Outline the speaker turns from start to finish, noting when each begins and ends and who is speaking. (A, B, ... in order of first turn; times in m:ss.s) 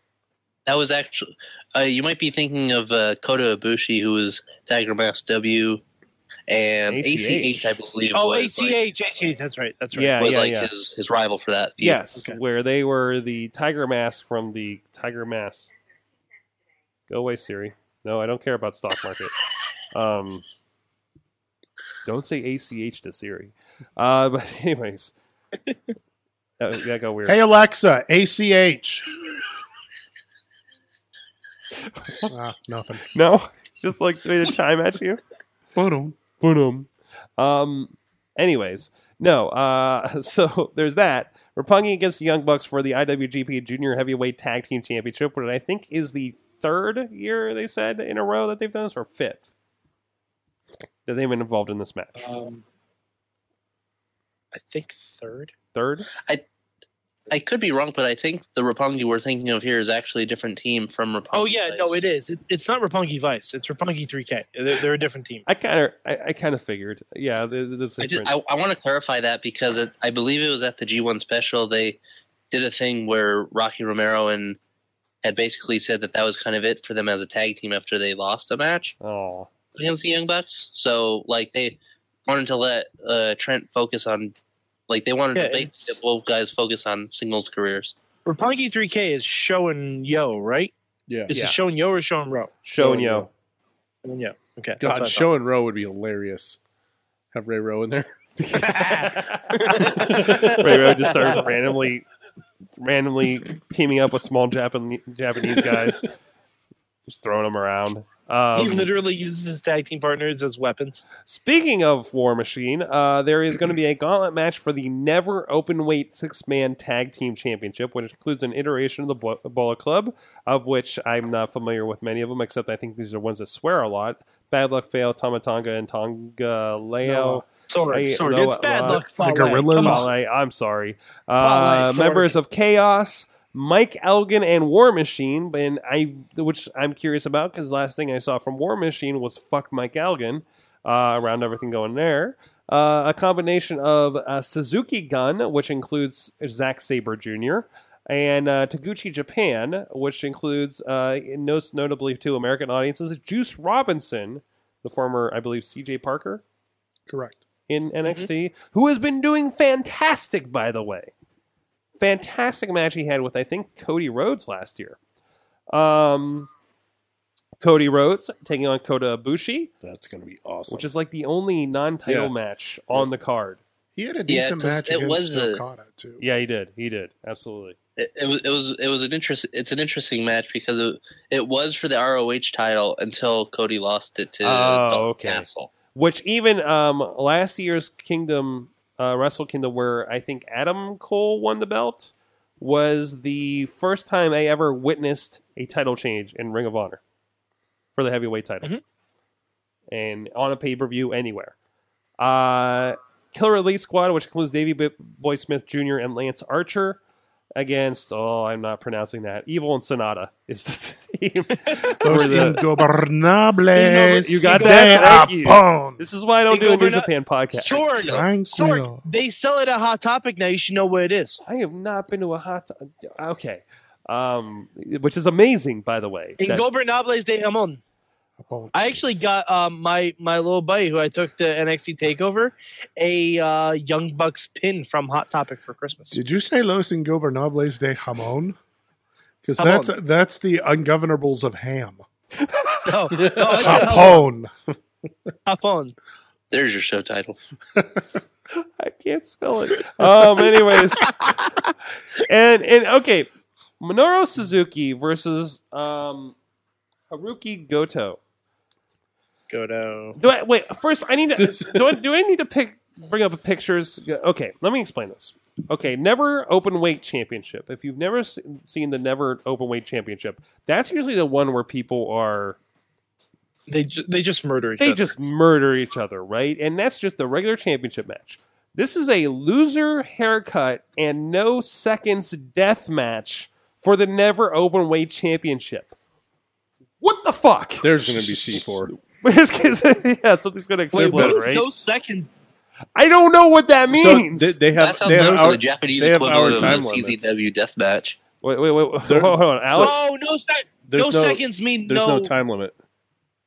0:00.6-0:05.8 A
0:06.5-0:08.8 A
0:06.9-0:07.8 B
0:08.1-0:10.2 C
0:09.9-0:10.7 B
0:10.2-0:12.0 A
0:11.8-0:15.7 B
0:17.1-0:19.4 B
0:19.9-0:20.4 B
0:22.0-0:25.1 B
0:26.6-0:27.4 B
0:27.2-0:29.1 D
0:31.9-0:32.3 B
0:32.3-0:33.1 D
0:33.1-0:35.2 B
0:35.7-0:36.2 D
0:36.4-0:49.4 B
0:51.0-0:52.3 B
0:52.2-0:52.6 C
0:54.5-0:55.5 C
0:55.7-0:56.1 B
0:57.3-1:02.0 A
1:01.3-1:05.4 C
1:05.5-1:08.3 B
1:08.0-1:12.0 A
1:12.5-1:14.6 A
1:15.2-1:18.9 A
1:19.0-1:19.5 B
1:19.7-1:24.3 A
1:24.9-1:27.9 A
1:25.3-1:25.9 C
1:28.2-1:30.7 C
1:31.3-1:32.5 C
1:31.3-1:31.6 B
1:32.6-1:33.3 B
1:32.8-1:33.3 E
1:34.0-1:35.3 C
1:34.8-1:36.6 E
1:37.3-1:38.1 E
1:38.4-1:42.0 B
1:38.5-1:41.4 C
1:39.9-1:40.7 E
1:42.8-1:46.0 B
1:47.1-1:48.9 B
1:48.5-1:51.0 C
1:51.2-2:09.1 B
2:07.0-2:07.4 D
2:07.7-2:10.1 C
2:08.9-2:10.1 D
2:09.7-2:36.4 B
2:11.4-2:12.3 C
2:37.1-2:37.4 D
2:37.7-2:41.1 B
2:42.0-2:45.0 B
2:45.7-2:46.5 B
2:47.6-2:49.7 B
2:49.8-2:50.9 E
2:50.7-2:53.6 B
2:52.1-2:52.3 E
2:54.0-2:56.2 D
2:54.3-2:55.6 A
2:56.2-2:57.8 B
2:58.0-3:05.7 A
3:04.4-3:17.0 B
3:18.0-3:18.7 B
3:19.9-3:21.5 B
3:22.2-3:27.0 B
3:27.6-3:32.6 B
3:32.0-3:36.0 D
3:34.0-3:37.8 B
3:34.1-3:35.3 C
3:36.5-3:41.4 C
3:38.0-3:39.0 D
3:41.4-3:46.6 B
3:46.4-3:47.8 C
3:48.4-3:49.2 D
3:48.7-3:56.2 C
3:56.1-3:58.6 D
3:59.4-4:02.0 D
3:59.6-3:59.9 C
4:02.8-4:04.2 C
4:03.2-4:03.5 E
4:03.6-4:04.5 D
4:05.4-4:06.0 C
4:06.5-4:07.4 A
4:08.6-4:11.5 B
4:12.1-4:13.3 B
4:13.8-4:16.3 B
4:17.1-4:18.2 B
4:19.5-4:20.2 C
4:20.2-4:32.6 B
4:21.4-4:21.8 E
4:33.7-4:35.1 C
4:34.8-4:45.9 B
4:47.0-4:51.6 B
4:47.8-4:48.9 E
4:50.9-4:52.3 C
4:51.0-4:51.4 E
4:53.0-4:54.6 B
4:53.9-4:57.4 E
4:54.7-4:58.2 A
4:55.1-4:55.6 D
4:58.4-5:00.0 B
4:59.1-5:00.0 E
4:59.7-5:02.3 C
5:00.9-5:02.7 E